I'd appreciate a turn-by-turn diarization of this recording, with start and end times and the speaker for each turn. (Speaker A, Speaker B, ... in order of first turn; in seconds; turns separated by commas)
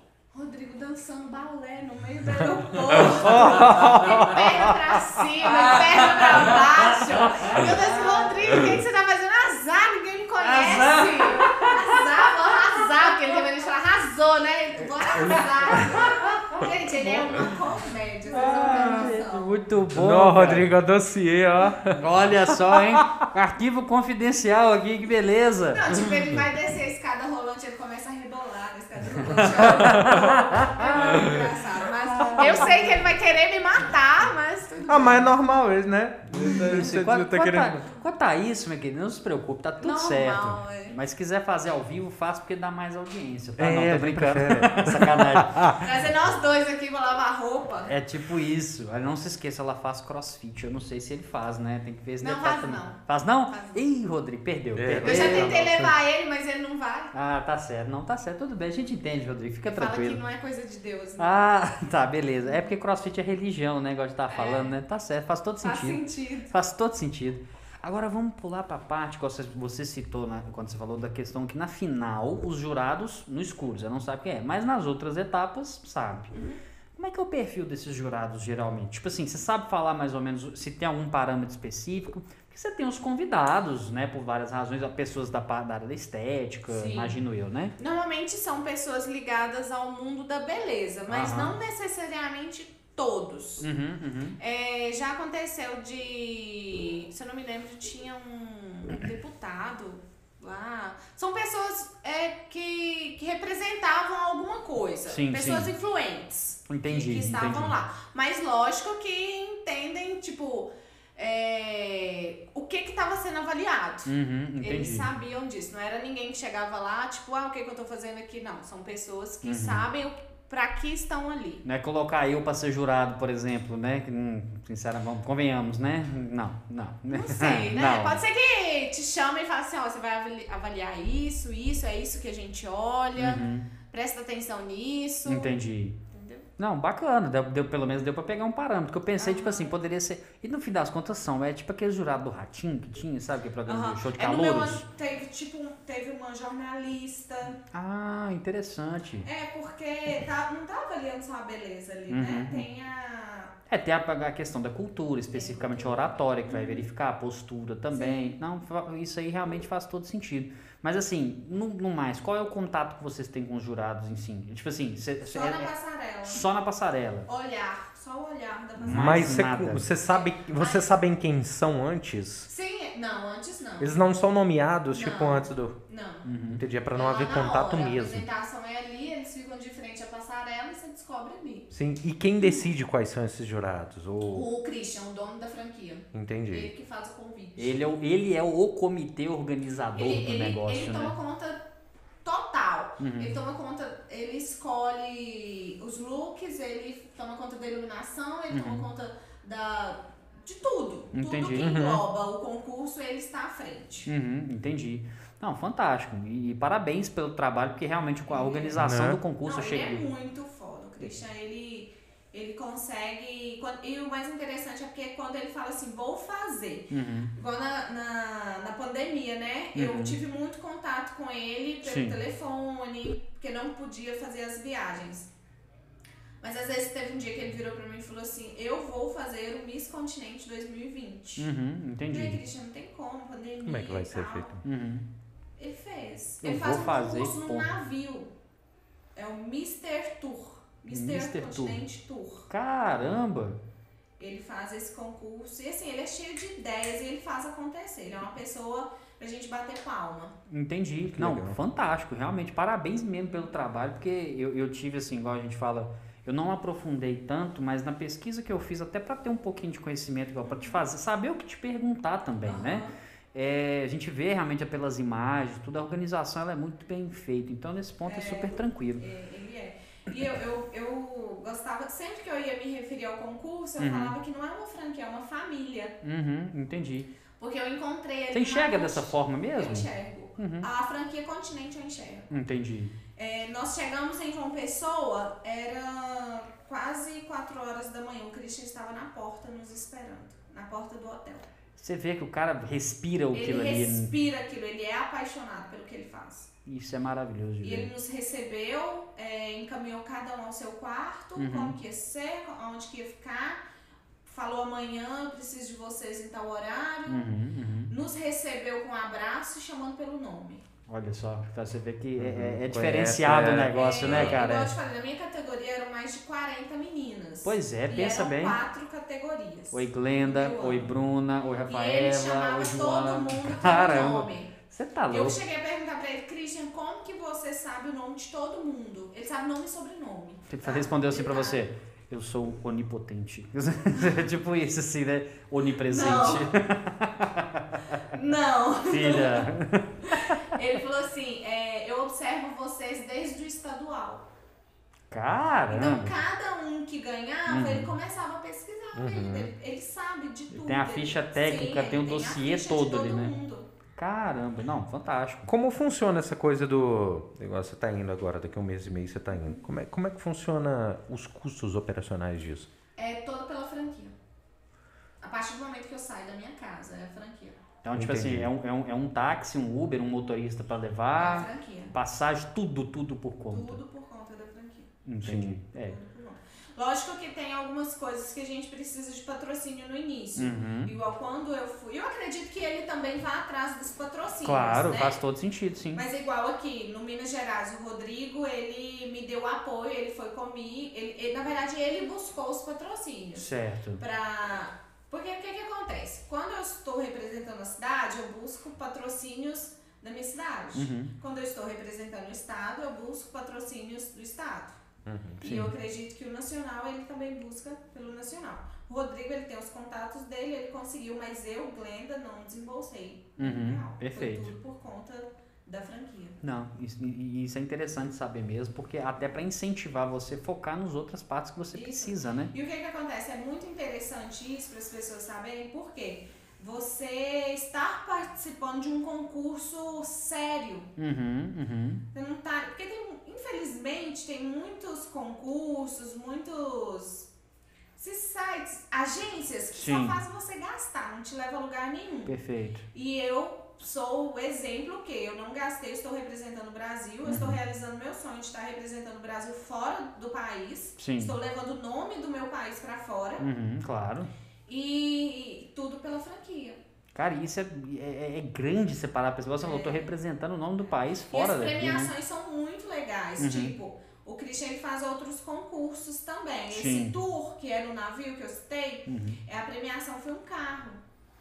Speaker A: 0.3-19.5, Speaker B: 2.5-5.2, Speaker C: 3.3-4.4, Speaker C: 5.5-8.7, Speaker C: 10.4-12.0, Speaker C: 15.0-17.6, Speaker B: 15.2-16.1, Speaker C: 18.3-20.7, Speaker B: 19.9-23.1, Speaker C: 21.9-26.1, Speaker A: 25.7-35.3, Speaker C: 29.3-31.4, Speaker B: 29.7-30.4, Speaker B: 31.1-31.5, Speaker C: 32.1-33.0, Speaker B: 34.9-37.9, Speaker C: 36.4-45.8, Speaker A: 39.8-41.0, Speaker B: 43.6-45.8, Speaker A: 45.7-47.9, Speaker C: 47.9-55.6, Speaker A: 52.2-53.8, Speaker B: 54.8-56.0, Speaker A: 55.0-57.1, Speaker C: 57.1-60.2, Speaker A: 59.7-61.4, Speaker C: 61.2-76.3, Speaker A: 64.3-64.8, Speaker A: 65.6-66.5, Speaker A: 76.3-76.6, Speaker C: 77.0-87.8, Speaker A: 86.7-87.2, Speaker A: 87.8-93.7, Speaker C: 91.1-91.6, Speaker C: 93.6-94.4, Speaker A: 94.4-121.6, Speaker C: 105.1-105.7, Speaker C: 106.7-107.7, Speaker C: 114.1-115.1, Speaker C: 119.4-119.9, Speaker C: 121.7-128.2, Speaker A: 127.1-135.5, Speaker C: 133.2-133.7, Speaker C: 135.3-136.0, Speaker A: 136.1-136.5, Speaker C: 136.6-144.8, Speaker A: 139.2-139.8, Speaker A: 143.7-147.6, Speaker C: 147.7-149.3, Speaker A: 149.2-153.5, Speaker C: 152.1-152.7, Speaker C: 153.7-165.7, Speaker A: 155.3-156.8, Speaker A: 157.9-158.3, Speaker A: 165.3-166.5, Speaker C: 166.3-167.3, Speaker A: 167.3-169.5, Speaker B: 168.8-172.5, Speaker C: 168.8-169.9, Speaker A: 170.0-171.0, Speaker A: 172.5-174.0, Speaker B: 173.8-175.8, Speaker A: 174.9-176.3, Speaker C: 176.2-176.6, Speaker B: 176.5-178.3, Speaker A: 176.9-181.7, Speaker B: 181.7-184.4, Speaker A: 182.4-182.7, Speaker A: 184.3-187.8, Speaker B: 186.1-186.7, Speaker C: 187.6-191.1, Speaker A: 189.9-191.6, Speaker A: 192.2-204.1, Speaker C: 193.0-193.3, Speaker C: 198.5-198.8, Speaker C: 201.1-201.7, Speaker B: 201.6-202.0, Speaker C: 204.1-210.1, Speaker A: 208.3-208.9, Speaker B: 208.8-209.2, Speaker A: 209.4-225.3, Speaker C: 216.9-217.3, Speaker C: 219.8-220.2, Speaker C: 221.8-222.2, Speaker A: 226.4-231.5, Speaker C: 231.4-232.4, Speaker A: 232.1-234.6, Speaker B: 233.7-234.6, Speaker C: 234.6-235.1, Speaker A: 235.6-238.3, Speaker C: 236.4-237.7, Speaker A: 239.2-242.5, Speaker C: 240.9-241.8, Speaker C: 242.5-243.6, Speaker A: 244.2-250.4, Speaker C: 250.5-269.0, Speaker B: 251.0-251.6, Speaker A: 260.5-260.8, Speaker A: 262.4-262.9, Speaker A: 268.1-276.0, Speaker C: 273.8-274.1, Speaker C: 276.0-277.1, Speaker A: 277.4-282.3, Speaker C: 278.3-280.7, Speaker C: 282.3-282.9, Speaker A: 283.2-291.5, Speaker C: 291.8-294.1, Speaker A: 293.3-296.5, Speaker C: 296.6-297.9, Speaker A: 297.6-303.6, Speaker C: 301.4-301.8, Speaker A: 304.3-307.2, Speaker C: 307.1-307.9, Speaker A: 307.9-310.6, Speaker C: 310.9-314.7, Speaker B: 312.2-314.4, Speaker A: 313.7-321.1, Speaker C: 317.4-318.6, Speaker C: 319.7-325.4, Speaker A: 321.7-324.5, Speaker A: 325.1-331.6, Speaker C: 330.5-338.0, Speaker A: 333.9-334.2, Speaker A: 335.8-336.5, Speaker A: 338.1-339.5, Speaker C: 338.9-340.4, Speaker A: 340.1-344.3, Speaker C: 345.1-346.2, Speaker A: 345.7-353.7, Speaker C: 347.5-347.9, Speaker B: 348.9-349.5, Speaker C: 350.5-353.4, Speaker C: 354.0-355.5, Speaker B: 355.5-362.7, Speaker A: 363.0-364.1, Speaker A: 365.2-367.6, Speaker C: 367.8-373.8, Speaker B: 367.9-368.5, Speaker A: 371.2-371.9, Speaker A: 373.5-375.0, Speaker C: 375.1-376.0, Speaker B: 375.2-375.6, Speaker A: 375.7-385.2, Speaker C: 380.4-380.9, Speaker C: 384.4-386.1, Speaker A: 385.9-404.8, Speaker C: 393.4-394.0, Speaker C: 400.8-401.1, Speaker B: 405.1-405.4, Speaker A: 405.4-416.4, Speaker C: 405.4-405.7, Speaker C: 413.4-414.5, Speaker C: 416.4-422.5, Speaker A: 421.7-430.9, Speaker C: 431.0-432.0, Speaker A: 432.1-437.3, Speaker A: 438.0-442.4, Speaker C: 439.7-440.2, Speaker C: 442.3-442.9, Speaker A: 442.9-453.5, Speaker C: 447.3-447.6, Speaker C: 451.0-451.4, Speaker C: 453.4-454.3, Speaker A: 454.7-456.8, Speaker C: 457.1-462.1, Speaker A: 459.6-460.1, Speaker A: 461.3-471.0, Speaker C: 463.4-463.8, Speaker C: 466.7-467.2, Speaker C: 469.1-469.4